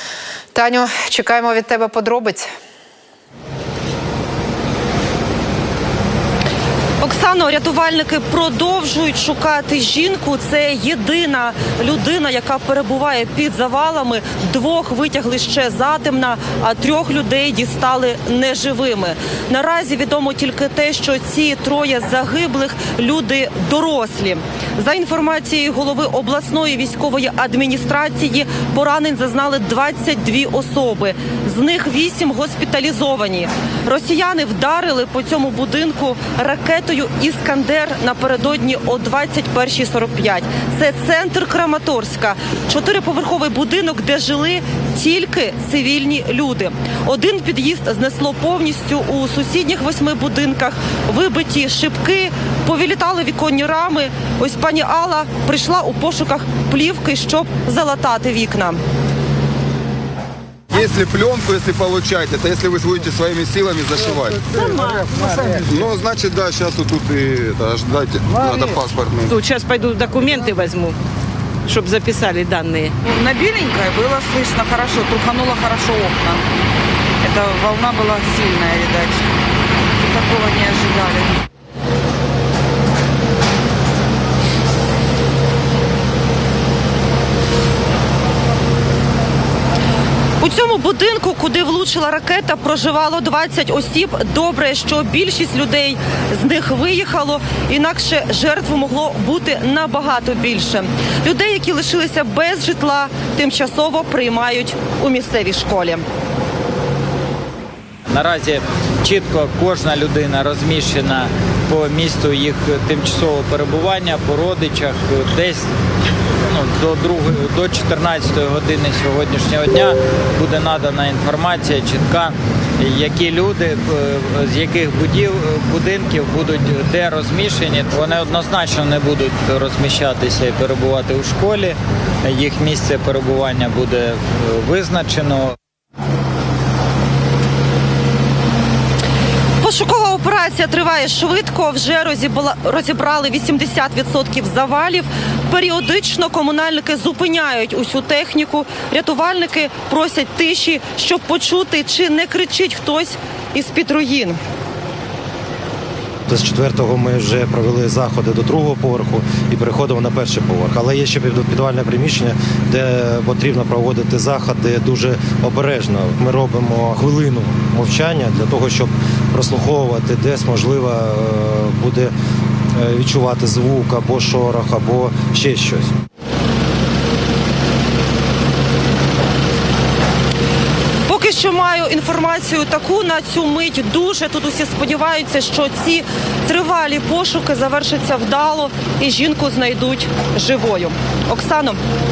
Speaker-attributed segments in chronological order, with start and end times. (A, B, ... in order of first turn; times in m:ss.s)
0:00.5-0:02.5 A
0:07.0-0:58.8 B
1:00.7-1:04.6 C
1:04.6-1:05.1 D
1:05.6-1:09.4 C
1:09.3-1:11.0 D
1:11.7-1:13.0 D
1:13.0-1:16.5 E
1:17.2-1:19.3 E
1:20.0-1:21.4 E
1:30.4-1:46.0 B
1:48.1-1:55.7 F
1:56.4-2:15.6 F
2:19.6-2:34.4 B
2:36.3-2:52.1 G
2:52.8-2:55.9 G
3:01.1-3:11.8 B